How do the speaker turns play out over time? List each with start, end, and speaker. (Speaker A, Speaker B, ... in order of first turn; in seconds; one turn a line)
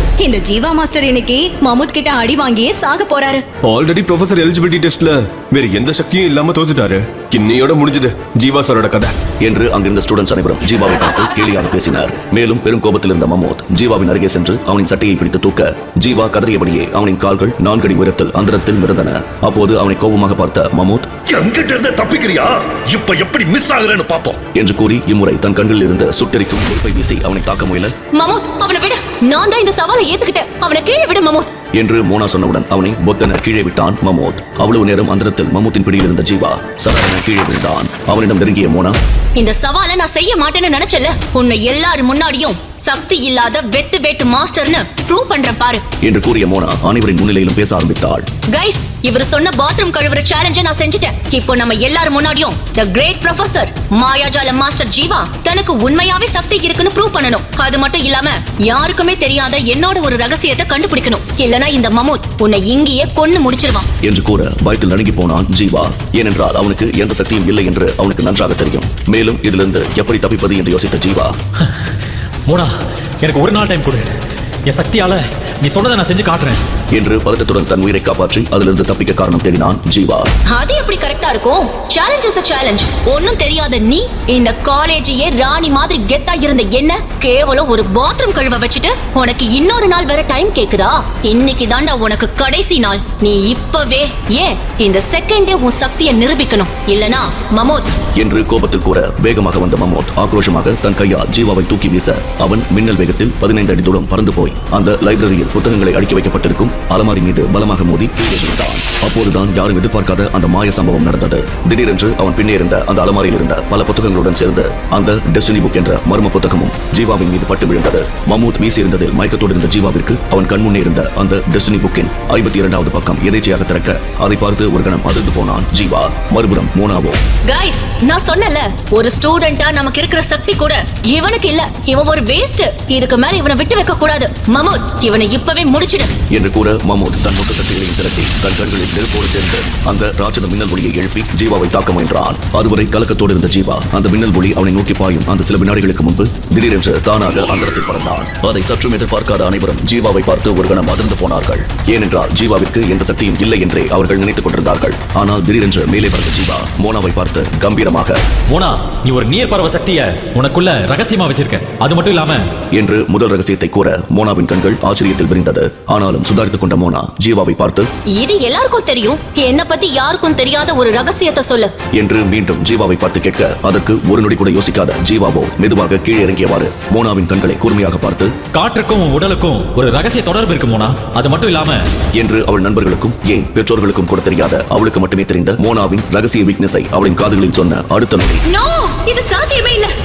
Speaker A: 0.2-3.4
Speaker B: 3.6-9.2
Speaker C: 9.4-21.1
Speaker D: 21.3-24.4
Speaker C: 24.5-27.9
Speaker E: 28.1-31.5
Speaker C: 31.7-39.0
Speaker E: 39.4-45.8
Speaker C: 46.0-48.3
Speaker E: 48.5-63.9
Speaker C: 64.0-71.4
Speaker F: 72.5-74.1
Speaker F: 74.7-76.6
Speaker C: 76.9-80.3
Speaker E: 80.5-97.9
Speaker C: 98.2-127.2
Speaker E: 127.5-136.2
Speaker C: 136.3-158.2
Speaker F: 158.5-162.4
Speaker C: 162.7-167.9
Speaker E: 168.1-171.7
Speaker C: 171.9-178.3
Speaker F: 178.5-181.8
Speaker C: 182.2-188.4
Speaker E: 188.5-189.9